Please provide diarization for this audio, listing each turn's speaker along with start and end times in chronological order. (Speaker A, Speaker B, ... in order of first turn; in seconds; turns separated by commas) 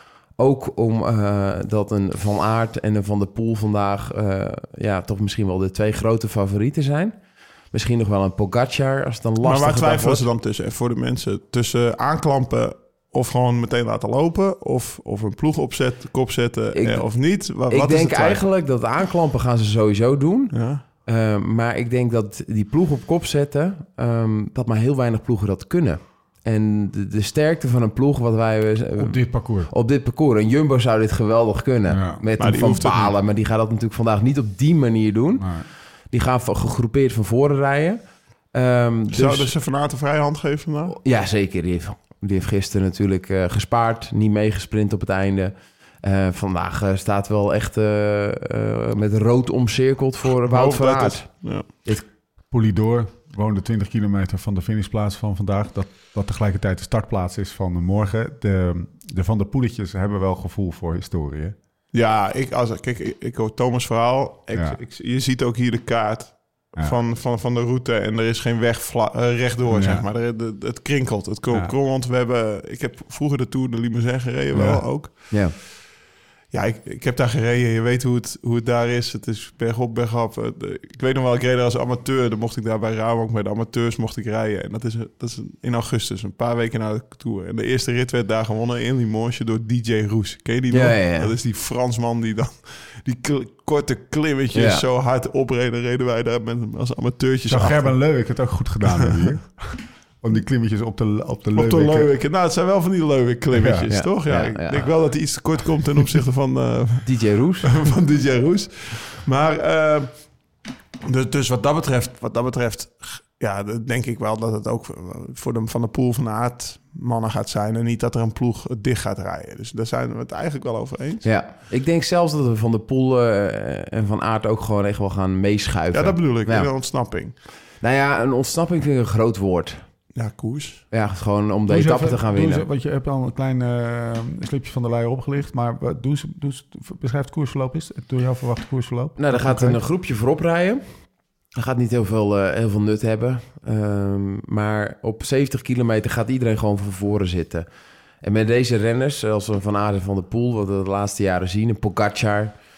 Speaker A: 0.4-7.2, Speaker A: 7.7-10.2, Speaker B: 9.4-18.4, Speaker A: 16.7-20.5, Speaker B: 20.5-20.8, Speaker A: 21.0-35.6, Speaker C: 29.0-29.7, Speaker C: 31.9-32.2, Speaker B: 32.4-33.1, Speaker C: 35.4-35.6, Speaker A: 36.1-38.0, Speaker A: 38.5-39.5, Speaker B: 39.1-40.9, Speaker A: 40.9-51.3, Speaker B: 50.5-51.6, Speaker C: 52.5-61.5, Speaker B: 61.9-75.4, Speaker C: 64.5-64.8, Speaker C: 69.7-70.0, Speaker C: 74.5-74.9, Speaker B: 76.5-98.0, Speaker A: 90.7-91.3, Speaker A: 94.5-94.8, Speaker C: 97.5-102.1, Speaker B: 98.9-99.2, Speaker B: 101.5-110.1, Speaker C: 103.5-103.9, Speaker A: 103.9-104.9, Speaker A: 107.0-107.7, Speaker B: 111.0-121.3, Speaker A: 121.2-126.7, Speaker B: 125.9-127.3, Speaker A: 127.8-129.8, Speaker B: 130.1-130.8, Speaker A: 130.9-132.7, Speaker C: 131.7-139.8, Speaker A: 139.2-140.8, Speaker A: 141.6-147.7, Speaker A: 148.2-152.6